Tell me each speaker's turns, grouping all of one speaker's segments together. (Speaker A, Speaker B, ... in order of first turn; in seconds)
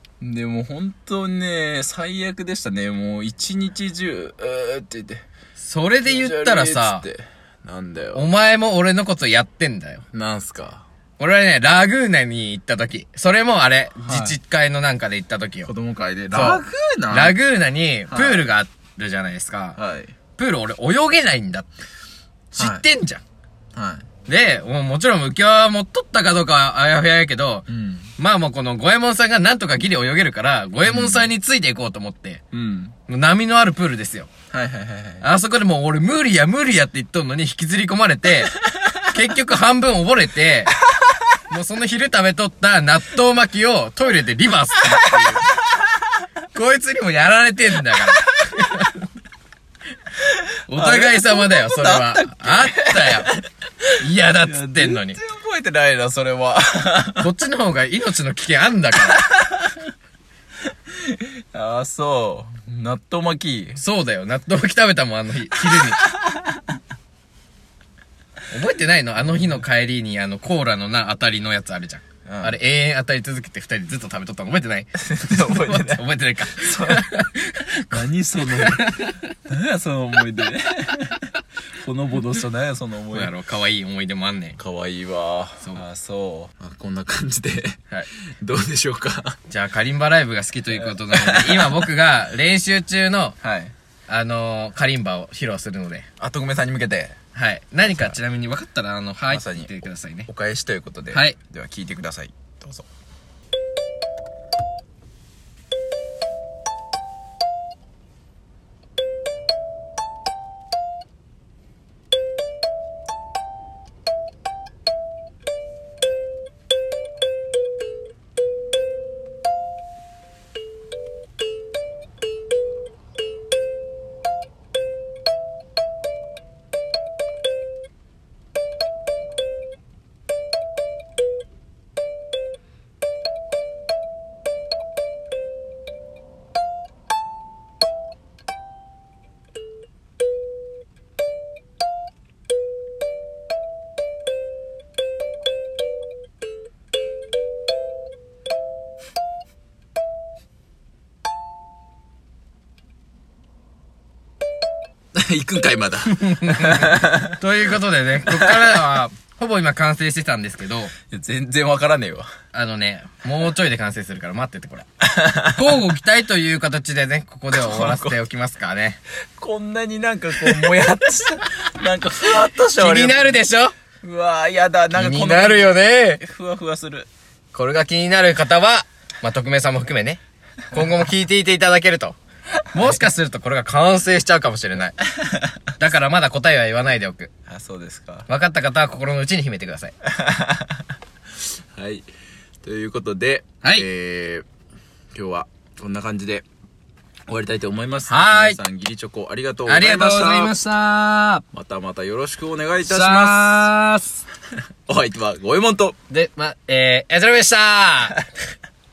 Speaker A: 0.2-5.2, 6.1-8.3, 10.1-10.9, 14.0-14.4, 15.7-17.4, 18.1-18.5, 19.8-20.1, 22.6-22.9, 23.8-24.1, 27.7-28.1, 30.9-31.3, 32.5-33.0, 34.5-35.2, 45.2-45.8, 50.7-53.4, 54.4-57.3, 59.1-59.8, 61.0-63.8, 66.1-66.5, 72.3-72.6, 75.0-76.0, 76.5-77.0, 77.6-78.9, 79.5-83.3, 84.6-87.8, 88.4-89.4, 90.7-91.9, 93.4-93.7, 96.2-97.2, 97.9-98.2, 99.3-99.7, 100.3-102.9, 155.2-157.4, 158.3-158.5, 161.1-162.3, 165.1-165.6, 167.5-168.2, 169.4-173.3, 174.0-177.1, 187.5-188.3, 190.1-190.8, 191.7-192.1, 192.6-194.5, 195.1-196.5, 197.3-200.6, 201.5-203.7, 204.9-206.0
Speaker B: 5.6-7.1, 8.1-10.1, 11.2-15.7, 16.3-19.8, 20.4-21.7, 22.5-23.2, 24.3-27.7, 28.2-32.4, 33.1-34.3, 35.2-40.7, 41.5-45.5, 46.5-49.0, 50.7-53.3, 54.0-55.2, 57.2-59.3, 63.8-66.0, 68.5-77.3, 78.5-79.2, 83.1-84.6, 89.5-93.4, 94.1-96.1, 97.3-100.3, 101.1-101.4, 156.1-160.9, 162.5-164.9, 165.5-169.0, 172.8-173.7, 174.9-176.2, 177.5-180.2, 180.7-182.2, 182.7-184.9, 185.8-187.3, 188.3-189.9, 198.1-198.6, 199.7-201.4, 202.8-204.2, 206.1-208.2